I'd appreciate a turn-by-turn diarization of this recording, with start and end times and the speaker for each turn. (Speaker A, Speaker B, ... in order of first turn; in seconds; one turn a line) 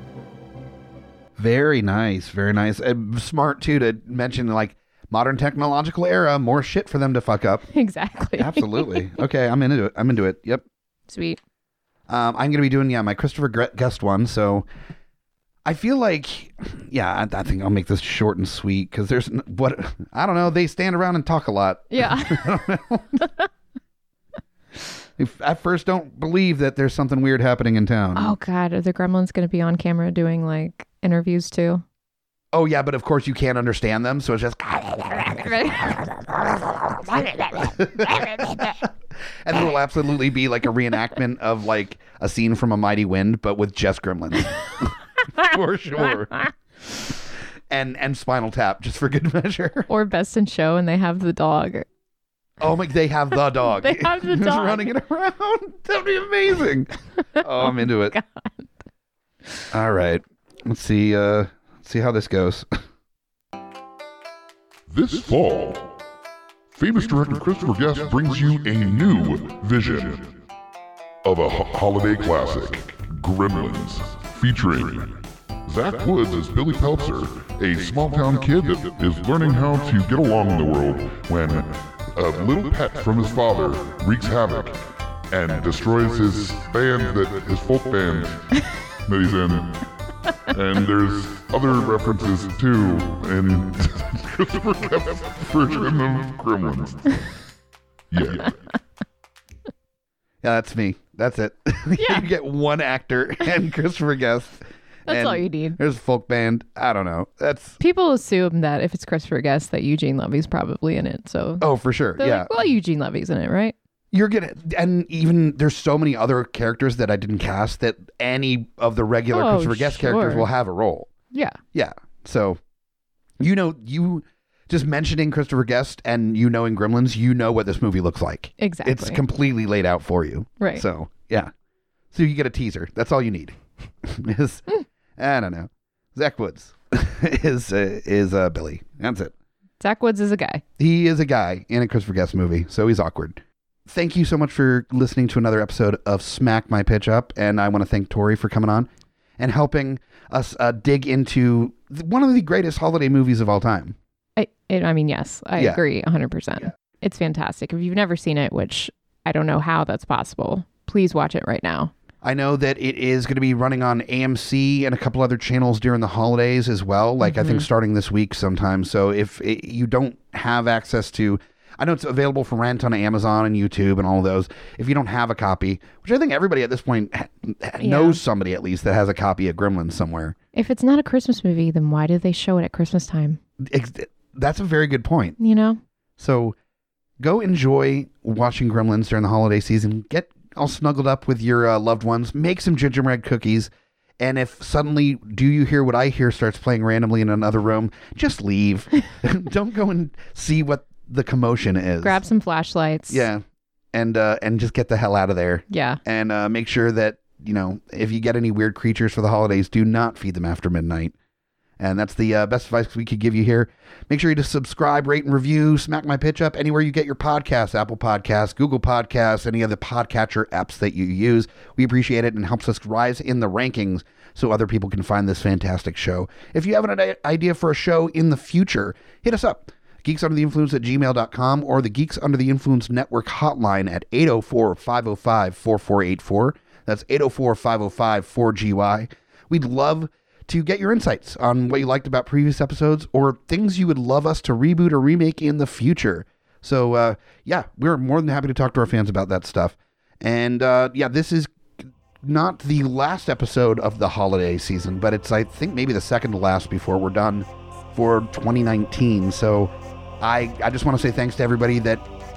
Speaker A: 1.4-7.7
Speaker B: 7.7-9.1
Speaker A: 8.3-10.6
Speaker B: 11.1-11.4
Speaker A: 12.1-14.7
Speaker A: 15.6-23.3
Speaker B: 21.9-22.6
Speaker A: 25.2-28.3
Speaker B: 28.1-31.8
Speaker A: 32.5-35.8
Speaker B: 35.4-36.1
Speaker A: 36.7-38.9
Speaker A: 39.4-46.5
Speaker A: 47.7-49.9
Speaker B: 49.9-51.9
Speaker A: 52.6-58.2
Speaker B: 53.6-54.9
Speaker B: 57.4-58.7
Speaker A: 59.7-62.7
Speaker C: 64.9-65.9
Speaker C: 66.7-70.3
Speaker C: 71.2-89.9
Speaker C: 90.4-97.2
Speaker C: 98.1-98.6
Speaker A: 100.4-107.8
Speaker B: 102.0-102.2
Speaker B: 105.1-105.8
Speaker B: 107.8-111.7
Speaker A: 111.6-112.5
Speaker B: 112.2-113.7
Speaker A: 114.1-121.1
Speaker B: 119.3-120.5
Speaker B: 121.3-121.6
Speaker A: 121.7-122.6
Speaker A: 123.4-131.5
Speaker B: 128.6-129.2
Speaker A: 132.1-139.3
Speaker B: 139.8-140.6
Speaker A: 140.8-153.9
Speaker B: 154.3-161.9
Speaker A: 155.6-155.8
Speaker A: 162.2-180.3
Speaker B: 167.2-167.7
Speaker B: 177.8-178.2
Speaker B: 180.5-183.4
Speaker A: 183.6-185.4
Speaker B: 185.4-185.8
Speaker A: 186.2-186.6
Speaker A: 187.2-202.2
Speaker B: 202.0-203.2
Speaker A: 203.1-203.4
Speaker A: 203.9-211.1
Speaker B: 205.7-206.0
Speaker A: 211.8-251.5
Speaker A: 252.2-262.0